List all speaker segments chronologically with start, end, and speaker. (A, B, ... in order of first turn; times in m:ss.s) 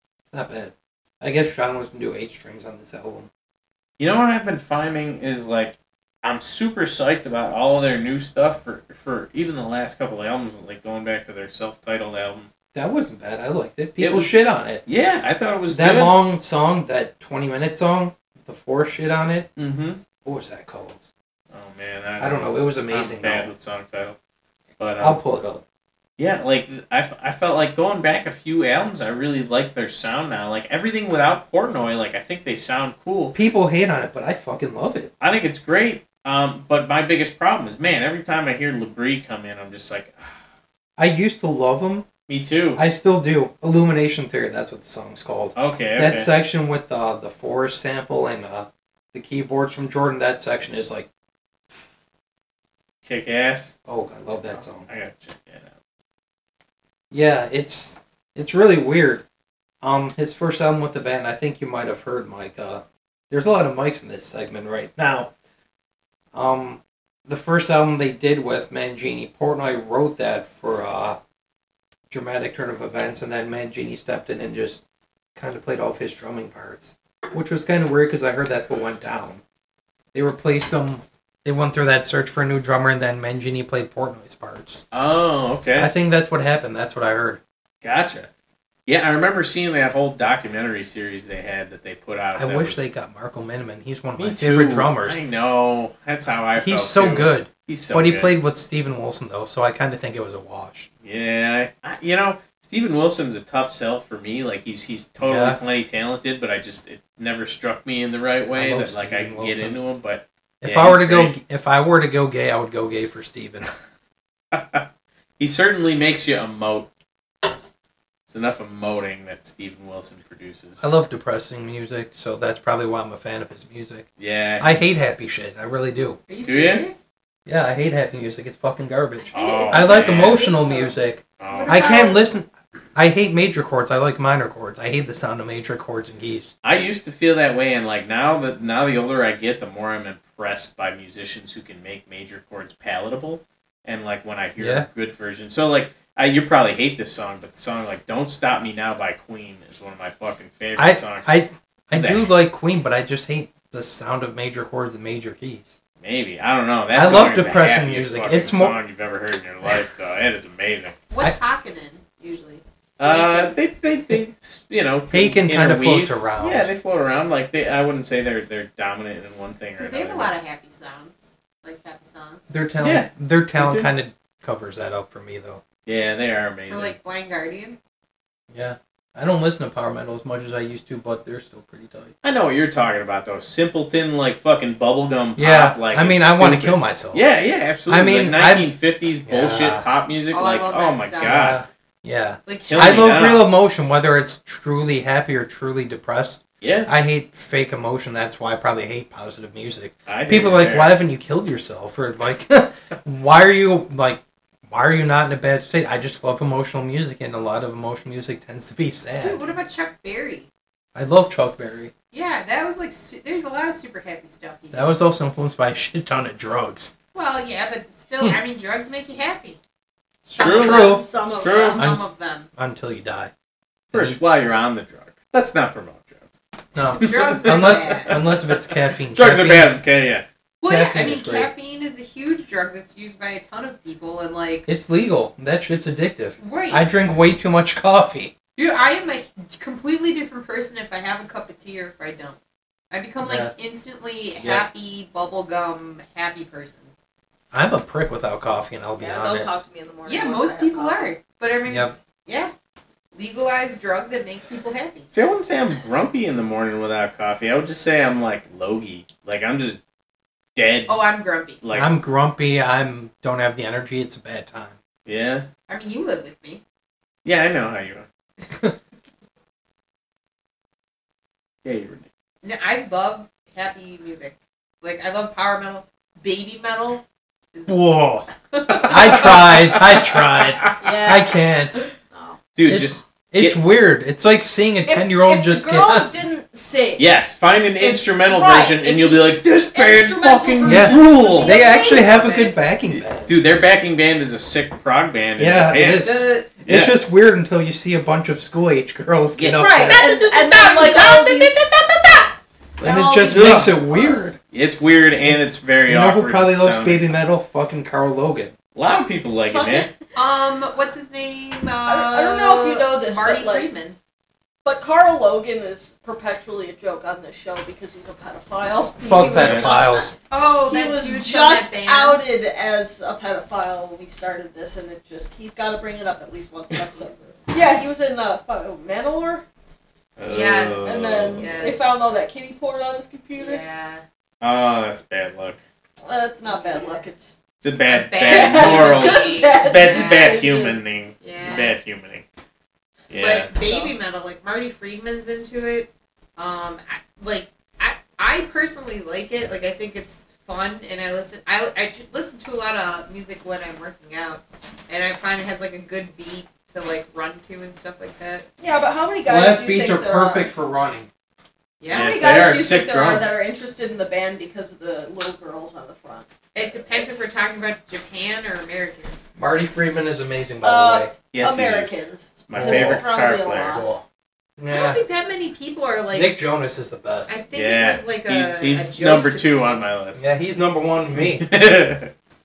0:00.3-0:03.3 A
0:04.0-0:12.5 B
0:12.7-0:14.8 A
0:14.0-0:14.3 B
0:14.8-0:16.2 B
0:15.7-0:19.5 A
0:19.6-0:20.0 B
0:20.2-0:21.0 A
0:21.5-0:24.2 B
0:22.2-0:23.5 A
0:24.8-0:25.2 B
0:25.0-0:25.6 A
0:26.2-0:33.4 B
0:33.3-0:35.1 A
0:35.2-0:40.3 B
0:41.0-0:42.1 A
0:42.3-0:42.8 B
0:42.7-0:51.1 A
0:45.6-0:46.3 B
0:53.1-0:53.7 B
0:53.9-0:54.9 A
0:54.5-0:55.7 B
0:57.1-0:59.2 A
0:59.8-1:05.3 A
1:06.3-1:11.2 A
1:12.1-1:14.8 A
1:15.4-1:19.4 A
1:20.1-1:24.8 A
1:24.9-1:25.9 B
1:25.8-1:27.4 A
1:27.8-1:28.3 B
1:28.9-1:32.8 B
1:32.4-1:35.2 A
1:34.2-1:38.3 B
1:36.6-1:40.9 A
1:41.0-1:51.4 B
1:45.2-1:45.6 A
1:48.5-1:49.8 A
1:50.6-1:53.7 A
1:54.5-1:54.8 B
1:55.4-1:56.9 B
1:58.3-2:00.9 B
2:00.8-2:04.1 A
2:04.2-2:04.8 B
2:04.6-2:06.2 A
2:06.3-2:07.0 C
2:06.4-2:06.8 B
2:07.4-2:16.5 A
2:09.3-2:10.9 C
2:09.3-2:10.5 B
2:11.4-2:12.2 B
2:11.5-2:12.2 C
2:16.6-2:31.3 B
2:24.6-2:24.9 A
2:30.8-2:35.7 A
2:31.9-2:32.3 B
2:36.0-2:41.0 B
2:36.9-2:38.8 A
2:41.1-2:43.6 C
2:43.0-2:50.3 B
2:45.1-2:46.7 A
2:49.8-2:52.6 C
2:52.5-2:55.6 A
2:52.8-2:53.9 B
2:55.9-2:56.9 B
2:56.7-2:57.8 C
2:58.5-3:02.1 A
3:02.2-3:11.6 B
3:05.4-3:07.2 A
3:07.9-3:08.7 A
3:09.3-3:09.8 A
3:10.3-3:11.5 C
3:11.2-3:29.5 A
3:12.4-3:13.3 C
3:12.7-3:13.5 B
3:16.6-3:16.9 B
3:20.1-3:21.0 B
3:29.2-3:30.5 C
3:30.9-3:31.9 A
3:32.1-3:35.0 C
3:34.7-3:36.9 A
3:37.1-3:39.6 C
3:40.3-3:41.8 B
3:40.3-3:41.8 D
3:40.6-3:41.0 A
3:40.6-3:42.5 C
3:41.8-3:42.0 A
3:42.6-3:43.3 A
3:43.9-3:44.2 A
3:43.9-3:46.3 B
3:46.7-3:49.8 A
3:47.0-3:50.2 B
3:47.0-3:48.2 C
3:50.6-3:54.7 C
3:50.7-3:51.5 A
3:54.7-3:58.3 A
3:56.4-3:56.9 C
3:58.6-4:02.4 C
4:02.9-4:06.9 C
4:03.2-4:03.5 A
4:04.4-4:04.7 A
4:07.5-4:09.6 A
4:09.0-4:11.1 D
4:10.0-4:12.5 C
4:11.7-4:11.9 A
4:13.1-4:15.1 C
4:15.1-4:19.8 B
4:20.6-4:21.0 B
4:20.9-4:21.6 C
4:21.6-4:21.9 B
4:21.7-4:24.8 A
4:25.0-4:25.5 B
4:25.7-4:26.6 C
4:27.2-4:28.0 B
4:31.6-4:32.1 B
4:32.4-4:37.9 C
4:37.7-4:38.3 A
4:38.5-4:39.5 C
4:38.7-4:40.8 B
4:38.8-4:41.8 A
4:40.8-4:41.3 D
4:42.1-4:42.4 D
4:42.6-4:43.6 B
4:42.7-4:46.1 A
4:44.9-4:47.0 D
4:47.0-4:51.2 B
4:47.8-4:52.5 D
4:50.6-4:53.4 A
4:51.3-4:52.5 C
4:52.9-4:57.0 B
4:55.4-5:00.0 A
4:56.0-4:56.5 C
4:59.4-4:59.8 B
4:59.6-5:01.6 D
4:59.9-5:02.4 C
5:02.8-5:04.3 D
5:02.8-5:04.4 A
5:03.2-5:03.8 B
5:04.5-5:07.1 B
5:05.2-5:08.5 A
5:08.7-5:09.9 B
5:09.4-5:10.0 D
5:10.1-5:14.0 C
5:11.8-5:13.7 D
5:14.6-5:29.4 D
5:19.0-5:20.2 A
5:19.3-5:19.7 B
5:20.3-5:22.3 C
5:26.9-5:27.6 C
5:30.2-5:31.5 B
5:30.3-5:32.0 C
5:30.8-5:33.6 D
5:33.4-5:34.0 C
5:34.4-5:35.6 B
5:36.0-5:37.4 D
5:36.4-5:37.0 C
5:37.6-5:42.2 B
5:37.9-5:40.5 C
5:38.2-5:40.8 D
5:41.2-5:41.8 C
5:43.1-5:43.5 B
5:43.1-5:58.5 C
5:43.5-5:44.0 D
5:58.6-6:00.5 D
5:59.3-6:01.1 A
6:01.8-6:02.5 C
6:01.9-6:03.4 B
6:01.9-6:07.1 D
6:06.5-6:09.3 C
6:09.4-6:11.1 A
6:10.6-6:14.0 D
6:11.3-6:13.9 B
6:12.5-6:13.0 A
6:13.7-6:14.0 A
6:14.6-6:15.0 A
6:14.7-6:16.4 C
6:16.1-6:17.4 A
6:17.3-6:19.8 C
6:17.5-6:20.2 B
6:20.2-6:21.6 A
6:21.1-6:22.1 B